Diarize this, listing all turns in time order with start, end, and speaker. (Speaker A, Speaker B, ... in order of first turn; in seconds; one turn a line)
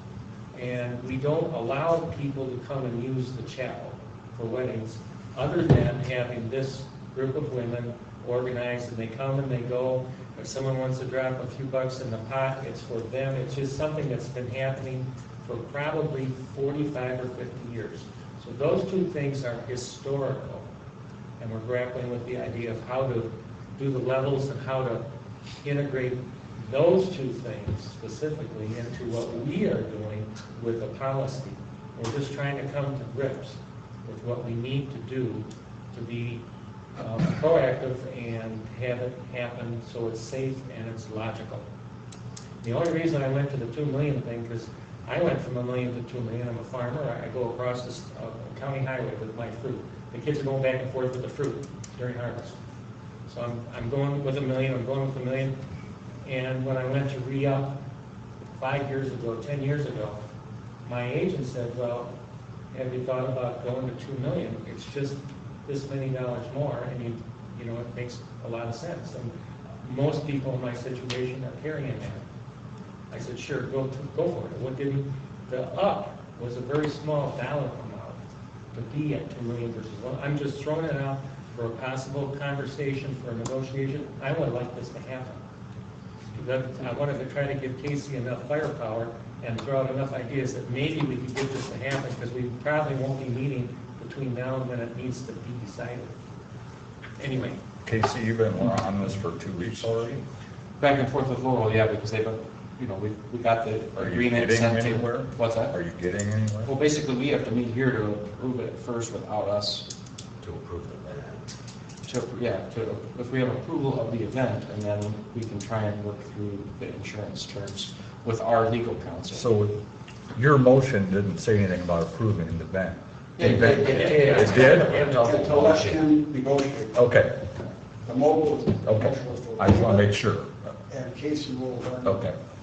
Speaker A: 0.5-20.7
Speaker A: 21.4-25.1
Speaker A: 25.6-36.4
Speaker A: 37.0-41.6
Speaker A: 42.6-52.6
Speaker A: 53.3-55.6
Speaker A: 56.2-57.8
Speaker A: 58.5-60.2
Speaker A: 60.8-62.1
Speaker A: 62.7-72.2
Speaker A: 73.1-78.2
Speaker A: 78.7-85.4
Speaker A: 86.3-96.1
Speaker A: 97.2-97.6
Speaker B: 97.8-100.2
Speaker C: 100.8-105.7
Speaker B: 103.9-106.7
Speaker C: 106.6-109.9
Speaker D: 110.4-111.5
Speaker C: 112.0-119.5
Speaker B: 119.3-119.8
Speaker B: 120.3-125.0
Speaker D: 123.4-126.0
Speaker A: 123.8-125.4
Speaker E: 124.5-127.0
Speaker B: 126.9-127.5
Speaker E: 128.1-130.2
Speaker B: 128.8-130.7
Speaker E: 130.9-132.2
Speaker B: 132.0-132.3